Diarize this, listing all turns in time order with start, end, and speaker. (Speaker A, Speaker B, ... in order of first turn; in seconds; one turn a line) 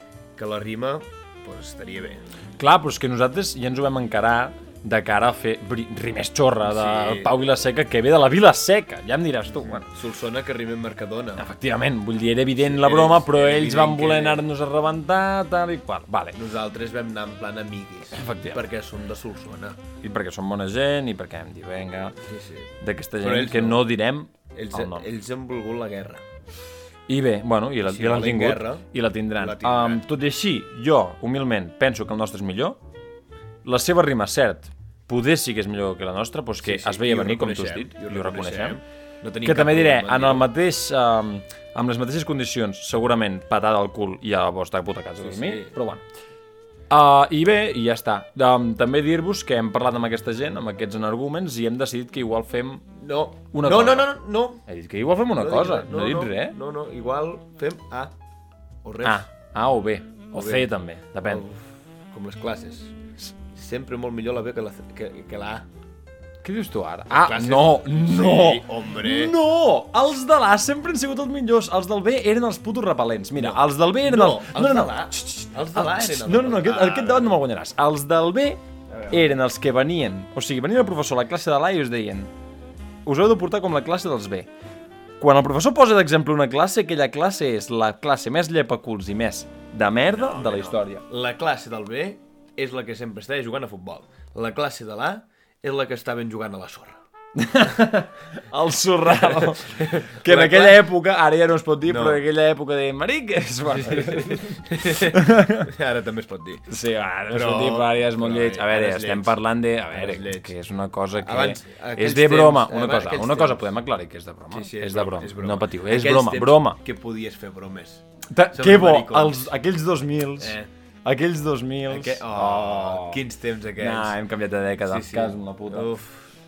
Speaker A: 0.4-2.2
Speaker B: 2.6-9.9
Speaker A: 6.6-7.4
Speaker A: 9.6-11.5
Speaker B: 11.4-16.4
Speaker A: 12.6-14.4
Speaker A: 16.3-19.8
Speaker B: 18.1-18.6
Speaker B: 20.0-22.1
Speaker A: 22.3-23.9
Speaker B: 22.8-25.1
Speaker A: 24.5-26.2
Speaker B: 27.1-32.8
Speaker A: 27.8-30.0
Speaker B: 33.6-38.8
Speaker A: 36.6-40.5
Speaker B: 39.4-46.0
Speaker A: 45.2-45.7
Speaker B: 46.9-52.8
Speaker A: 53.0-54.6
Speaker B: 53.5-54.1
Speaker B: 54.7-56.6
Speaker A: 55.3-58.1
Speaker A: 58.8-59.3
Speaker B: 59.0-61.5
Speaker A: 60.3-63.0
Speaker A: 63.5-65.7
Speaker B: 66.4-78.6
Speaker A: 67.1-69.4
Speaker A: 73.4-77.4
Speaker A: 78.9-79.3
Speaker B: 79.1-82.3
Speaker B: 83.0-84.5
Speaker B: 85.2-91.0
Speaker A: 90.1-97.0
Speaker B: 97.4-105.7
Speaker A: 99.1-100.9
Speaker A: 101.9-102.2
Speaker A: 103.7-106.7
Speaker B: 106.7-116.8
Speaker A: 107.3-109.4
Speaker A: 109.9-110.5
Speaker A: 111.2-113.8
Speaker A: 114.5-119.5
Speaker B: 118.3-123.2
Speaker A: 120.4-120.7
Speaker A: 121.9-124.2
Speaker B: 123.8-126.0
Speaker A: 124.8-126.2